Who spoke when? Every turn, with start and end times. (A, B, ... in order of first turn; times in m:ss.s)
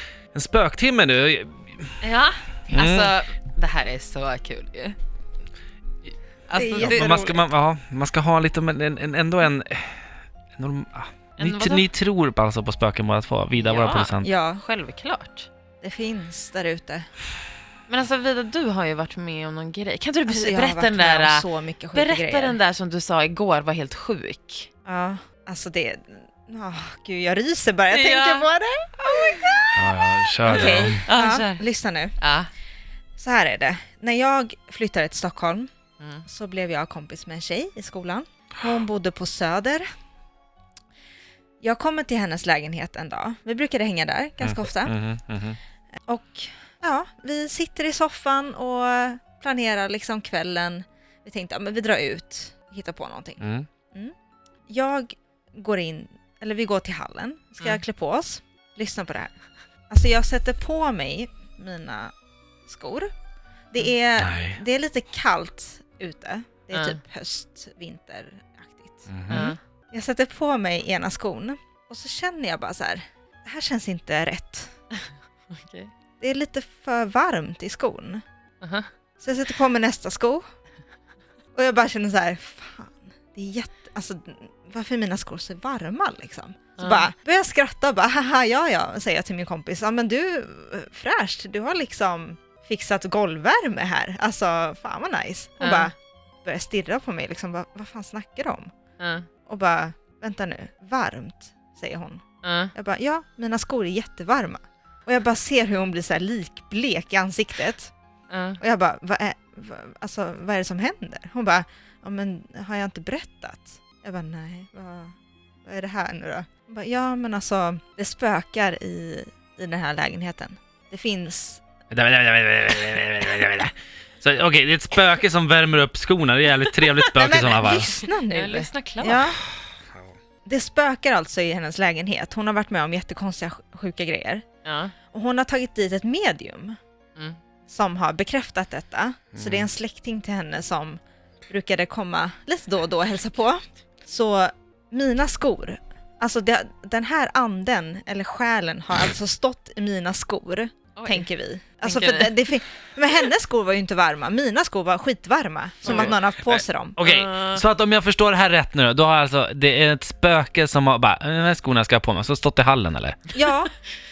0:00.3-0:02.0 A
0:02.0-0:05.0 B
0:02.7-0:03.1 A
0:06.1-0:07.4 B
0:06.5-0:07.4 C
0:06.8-0:10.0 A
0:10.6-0:14.3 A
0:11.4-0:11.9 B
0:13.6-0:15.5 B
0:14.2-0:14.6 C
0:15.8-0:17.1 C
0:17.9-0:24.7 B
0:20.3-0:22.6 C
0:24.8-0:29.8 C
0:27.9-0:28.5 B
0:29.0-0:29.7 B
0:29.8-0:31.0 A
0:30.5-0:32.2 C
0:30.5-0:31.6 B
0:32.2-0:32.5 B
0:33.2-0:35.7 C
0:36.0-0:36.3 B
0:36.3-0:39.9 C
0:41.6-0:45.0 C
0:44.4-0:45.6 A
0:46.1-0:54.1 C
0:53.4-0:53.7 A
0:54.7-0:59.3 C
0:59.9-1:02.1 C
1:02.7-1:03.1 C
1:03.7-1:14.7 C
1:04.2-1:04.6 A
1:06.7-1:07.0 B
1:09.1-1:09.5 A
1:09.3-1:09.6 B
1:15.6-1:15.9 B
1:16.2-1:18.2 C
1:18.6-1:18.9 B
1:19.2-1:20.4 C
1:21.6-1:38.7 C
1:26.8-1:27.1 B
1:35.6-1:35.9 B
1:39.0-1:39.3 B
1:39.5-1:47.9 C
1:42.4-1:42.7 B
1:48.3-1:48.6 B
1:48.6-2:01.6 C
2:01.9-2:08.0 A
2:07.2-2:09.4 C
2:08.3-2:09.3 B
2:10.4-2:14.4 C
2:14.6-2:14.9 B
2:15.1-2:16.8 C
2:17.7-2:37.0 C
2:19.4-2:19.6 A
2:31.0-2:31.3 B
2:31.8-2:32.4 B
2:35.9-2:36.2 B
2:36.0-2:43.2 A
2:37.0-2:37.6 B
2:43.3-2:43.7 C